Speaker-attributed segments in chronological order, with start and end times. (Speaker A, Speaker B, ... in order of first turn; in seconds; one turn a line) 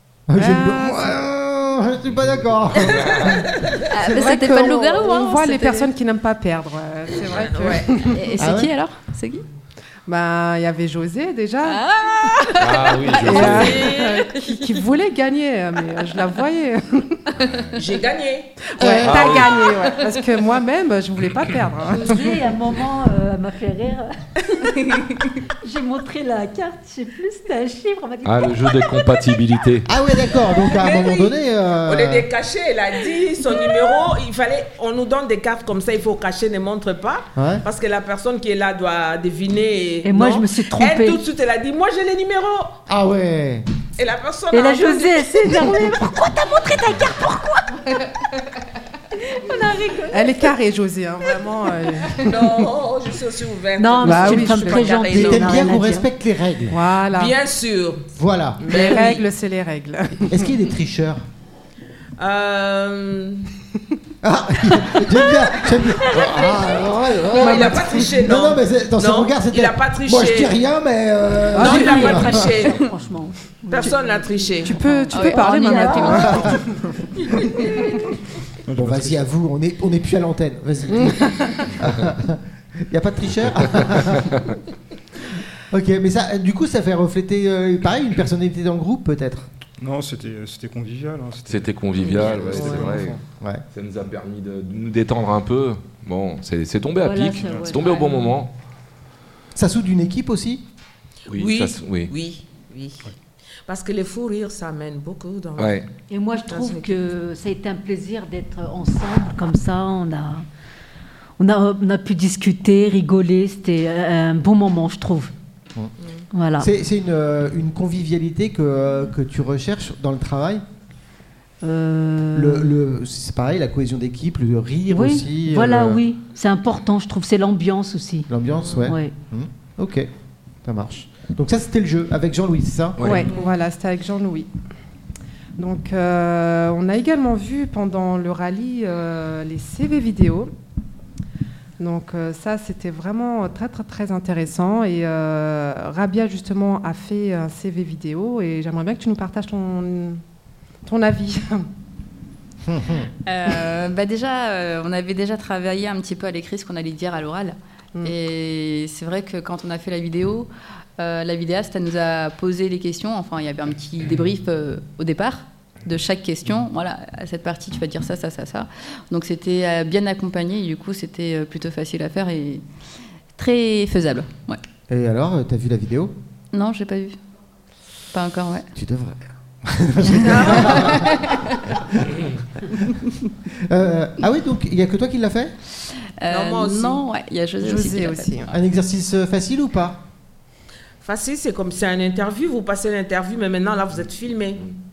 Speaker A: 0.3-3.6
Speaker B: 0.3-1.2
Speaker C: 2.7-3.4
Speaker D: 3.9-5.9
Speaker B: 4.0-8.2
Speaker E: 7.3-8.0
Speaker D: 8.1-9.4
Speaker A: 8.4-8.7
Speaker B: 10.1-17.4
Speaker D: 11.7-12.8
Speaker C: 12.6-13.9
Speaker E: 13.2-14.3
Speaker E: 17.8-19.5
Speaker B: 18.7-22.4
Speaker C: 19.0-19.7
Speaker F: 21.9-24.8
Speaker F: 25.6-29.3
Speaker C: 28.2-29.9
Speaker A: 29.9-32.3
Speaker E: 30.7-42.8
Speaker F: 33.5-33.9
Speaker A: 37.4-37.6
Speaker F: 40.0-41.2
Speaker A: 42.9-43.7
Speaker E: 44.0-46.1
Speaker F: 44.5-48.1
Speaker F: 49.2-50.5
Speaker B: 50.1-52.6
Speaker E: 52.2-55.7
Speaker F: 53.8-56.1
Speaker B: 54.0-55.0
Speaker A: 55.1-56.8
Speaker B: 56.7-57.4
Speaker E: 57.1-58.1
Speaker A: 58.1-58.6
Speaker B: 58.6-60.5
Speaker E: 58.6-59.3
Speaker A: 60.3-61.3
Speaker E: 62.2-63.5
Speaker A: 64.2-72.5
Speaker F: 66.2-66.9
Speaker E: 67.3-70.6
Speaker B: 67.7-68.2
Speaker E: 71.5-72.9
Speaker B: 71.5-72.3
Speaker F: 71.6-76.6
Speaker E: 73.7-74.8
Speaker B: 74.6-77.8
Speaker D: 75.1-76.6
Speaker A: 76.3-76.6
Speaker G: 78.7-79.3
Speaker A: 78.8-84.4
Speaker B: 80.9-81.8
Speaker A: 85.7-89.5
Speaker G: 89.8-93.2
Speaker C: 91.5-93.2
Speaker E: 92.0-92.9
Speaker A: 93.3-93.6
Speaker C: 93.7-98.5
Speaker F: 97.0-98.4
Speaker A: 99.5-100.7
Speaker E: 101.3-103.1
Speaker C: 101.3-102.1
Speaker E: 103.7-105.8
Speaker C: 105.6-105.9
Speaker F: 106.1-110.5
Speaker E: 106.5-107.0
Speaker F: 111.4-115.3
Speaker E: 116.0-116.3
Speaker F: 116.3-116.7
Speaker A: 116.6-120.6
Speaker F: 121.6-122.8
Speaker A: 122.3-126.0
Speaker F: 124.9-128.3
Speaker A: 128.3-130.1
Speaker E: 128.6-128.9
Speaker F: 128.8-129.1
Speaker A: 130.6-133.2
Speaker C: 133.0-133.3
Speaker B: 133.0-134.5
Speaker E: 133.3-133.5
Speaker B: 135.6-140.5
Speaker B: 141.8-150.2
Speaker B: 150.8-151.7
Speaker A: 152.7-153.1
Speaker D: 153.3-172.6
Speaker D: 173.4-174.6
Speaker A: 174.9-176.1
Speaker D: 176.5-177.2
Speaker D: 178.1-178.7
Speaker A: 178.8-182.2
Speaker D: 180.1-181.8
Speaker E: 180.2-181.1
Speaker A: 183.5-185.6
Speaker D: 186.0-188.3
Speaker E: 186.3-187.0
Speaker B: 187.6-188.5
Speaker A: 188.5-190.1
Speaker E: 191.0-194.7